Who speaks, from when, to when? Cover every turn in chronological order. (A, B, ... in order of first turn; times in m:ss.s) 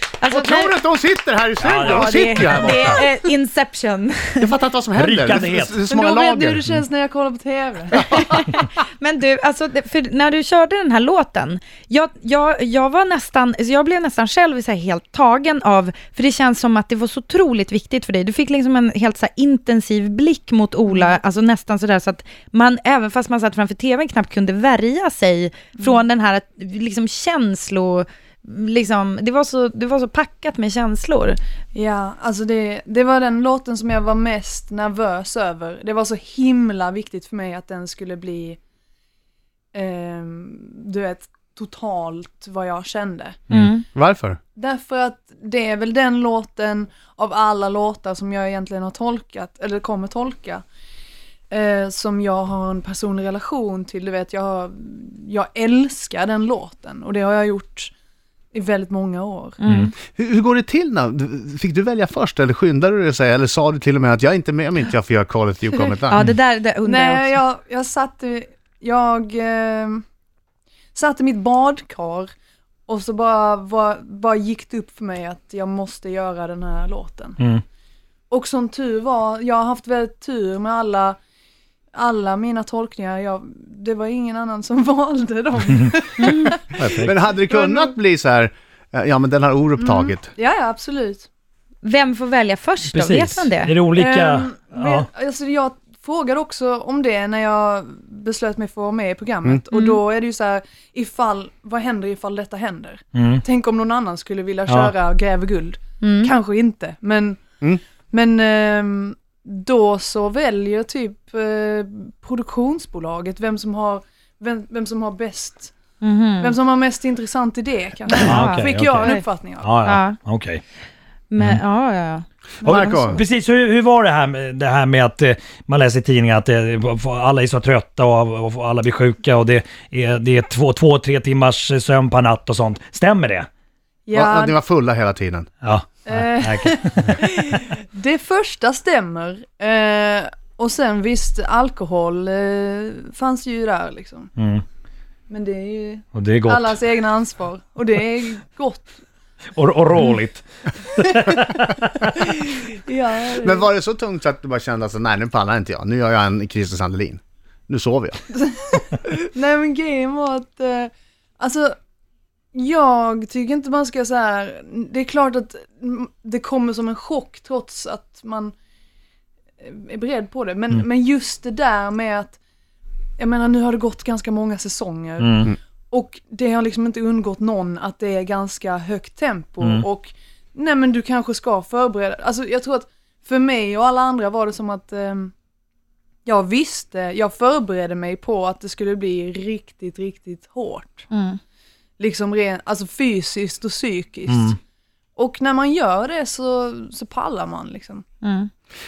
0:00.2-0:00.8 A
0:00.3-0:03.1 B
0:01.6-0:02.8 C
0:01.8-0:04.5 A
0:04.4-0:06.7 B
0:04.9-0:05.8 C
0:05.9-0:08.2 D
0:08.0-0:08.5 B
0:08.0-0:31.4 A
0:20.8-0:21.1 D
0:25.8-0:26.0 D
0:31.7-0:38.6 D
0:39.7-0:43.5 D
0:43.5-0:43.8 A
0:43.9-0:44.4 B
0:44.6-0:50.6 D
0:51.5-0:57.9 D
0:58.5-0:59.6 D
0:59.6-0:59.9 A
0:59.6-0:59.9 C
1:00.1-1:06.2 B
1:06.1-1:07.4 A
1:06.8-1:10.0 D
1:10.9-1:12.3 D
1:12.9-1:17.4 D
1:18.3-1:21.2 D
1:21.9-1:27.9 D
1:26.2-1:26.5 A
1:26.8-1:27.1 C
1:26.8-1:30.3 B
1:29.8-1:31.3 D
1:31.8-1:33.8 A
1:32.9-1:35.1 C
1:33.9-1:47.4 D
1:39.7-1:40.0 A
1:43.1-1:43.4 C
1:44.7-1:44.9 C
1:46.0-1:46.3 A
1:48.1-1:55.7 D
1:56.0-1:56.6 A
1:56.4-1:59.8 D
1:58.1-1:59.2 A
1:58.2-2:00.6 C
1:59.8-2:00.2 A
2:01.3-2:02.2 A
2:02.6-2:03.2 B
2:02.6-2:13.5 C
2:14.0-2:14.6 D
2:14.1-2:15.5 B
2:15.6-2:17.2 C
2:16.1-2:24.3 D
2:24.4-2:24.6 C
2:25.3-2:29.0 D
2:26.1-2:26.8 C
2:29.5-2:32.2 C
2:32.2-2:33.7 D
2:33.4-2:38.2 B
2:38.3-2:41.8 D
2:42.5-2:48.5 D
2:49.6-2:52.4 D
2:53.2-3:05.3 D
2:55.2-2:55.5 C
2:59.6-2:59.8 C
3:06.2-3:11.1 D
3:11.1-3:11.4 A
3:12.0-3:14.6 D
3:14.3-3:14.6 C
3:15.2-3:18.0 D
3:18.2-3:18.5 A